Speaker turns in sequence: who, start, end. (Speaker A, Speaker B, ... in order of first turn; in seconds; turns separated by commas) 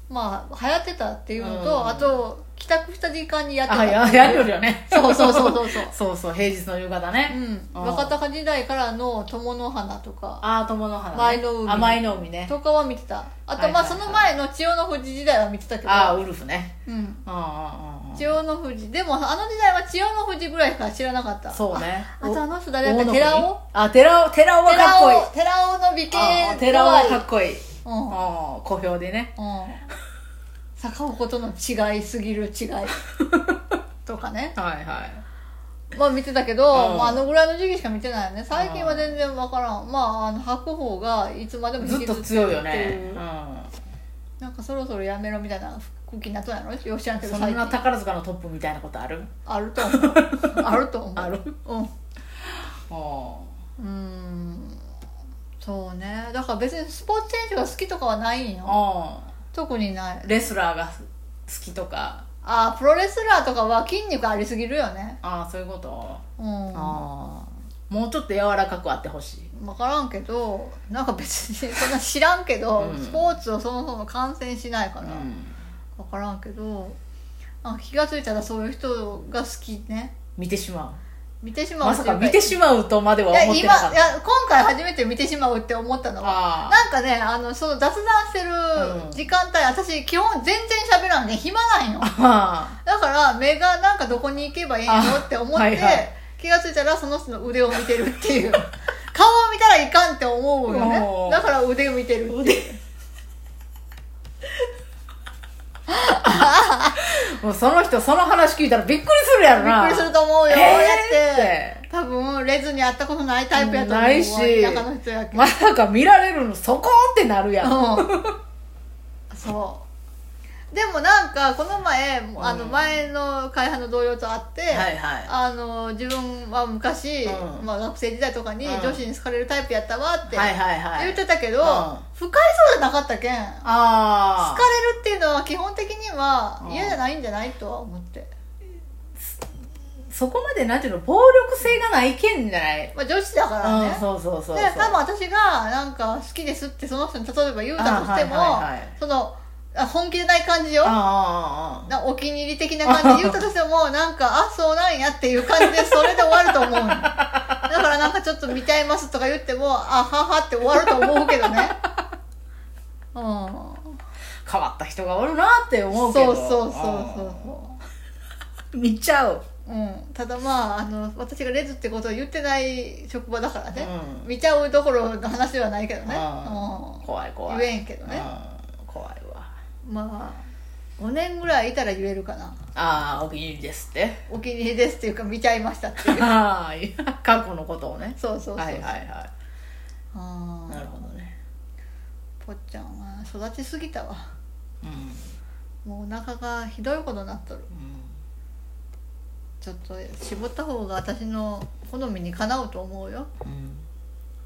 Speaker A: 0.1-6.0, Speaker B: 1.4-2.2, Speaker B: 3.7-8.1, Speaker A: 7.3-10.4, Speaker B: 10.4-12.5, Speaker A: 11.1-16.2, Speaker B: 13.6-14.3, Speaker B: 15.8-16.7, Speaker A: 16.9-17.2, Speaker B: 17.2-18.3, Speaker A: 18.2-23.6, Speaker B: 21.5-25.3, Speaker A: 24.6-27.2, Speaker B: 26.1-29.3, Speaker A: 27.8-28.2, Speaker A: 29.4-29.9, Speaker A: 30.8-33.0, Speaker A: 34.1-34.6, Speaker B: 34.6-35.2, Speaker A: 35.9-43.2, Speaker B: 36.7-37.2, Speaker B: 38.5-39.1, Speaker B: 41.8-43.7, Speaker A: 44.4-47.8, Speaker B: 47.2-49.3, Speaker A: 49.5-51.9, Speaker B: 49.9-50.6, Speaker B: 51.2-51.5, Speaker B: 52.9-53.5, Speaker A: 53.8-54.8, Speaker A: 55.6-58.8, Speaker B: 58.6-59.3, Speaker A: 59.5-60.3, Speaker B: 60.2-62.2, Speaker A: 62.4-65.2, Speaker B: 65.2-69.5, Speaker A: 66.4-67.0, Speaker A: 69.5-75.3, Speaker B: 72.8-73.2, Speaker B: 75.0-75.6, Speaker A: 76.0-77.0, Speaker A: 77.6-80.2, Speaker B: 80.4-81.0, Speaker A: 81.4-82.6, Speaker B: 81.8-84.1, Speaker A: 83.3-92.1, Speaker B: 86.2-86.8, Speaker B: 88.8-89.2, Speaker B: 92.0-92.8, Speaker A: 92.8-102.8, Speaker B: 94.9-96.1, Speaker B: 100.7-101.5, Speaker B: 102.3-102.7, Speaker A: 105.9-107.0, Speaker B: 107.0-111.8, Speaker A: 109.5-115.5, Speaker B: 113.5-118.4, Speaker A: 117.6-118.1, Speaker A: 119.3-119.9, Speaker A: 120.7-133.7, Speaker B: 122.4-123.0, Speaker B: 124.7-125.3, Speaker B: 127.2-127.7, Speaker B: 128.6-129.0, Speaker B: 130.3-132.1, Speaker B: 133.6-134.6, Speaker A: 134.4-138.3, Speaker B: 136.6-137.0, Speaker B: 140.1-142.9, Speaker A: 142.9-151.0, Speaker B: 143.6-145.0, Speaker B: 147.8-148.9, Speaker B: 150.8-151.9, Speaker A: 151.9-161.8, Speaker B: 152.8-153.4, Speaker B: 155.6-156.1, Speaker B: 156.8-157.6, Speaker B: 161.0-161.7, Speaker A: 163.1-164.0, Speaker B: 164.5-167.5, Speaker A: 165.9-167.8, Speaker B: 168.7-169.4, Speaker A: 169.7-178.3, Speaker B: 173.8-174.3, Speaker B: 176.1-179.5, Speaker A: 179.8-180.5, Speaker A: 181.0-182.6, Speaker B: 182.8-184.2, Speaker A: 184.3-186.3, Speaker B: 186.0-189.3, Speaker A: 188.2-188.9, Speaker A: 190.1-190.9, Speaker B: 190.7-191.4, Speaker A: 192.4-194.3, Speaker B: 194.8-195.3, Speaker A: 195.8-197.7, Speaker B: 197.7-198.1, Speaker A: 199.6-203.3, Speaker B: 203.4-203.8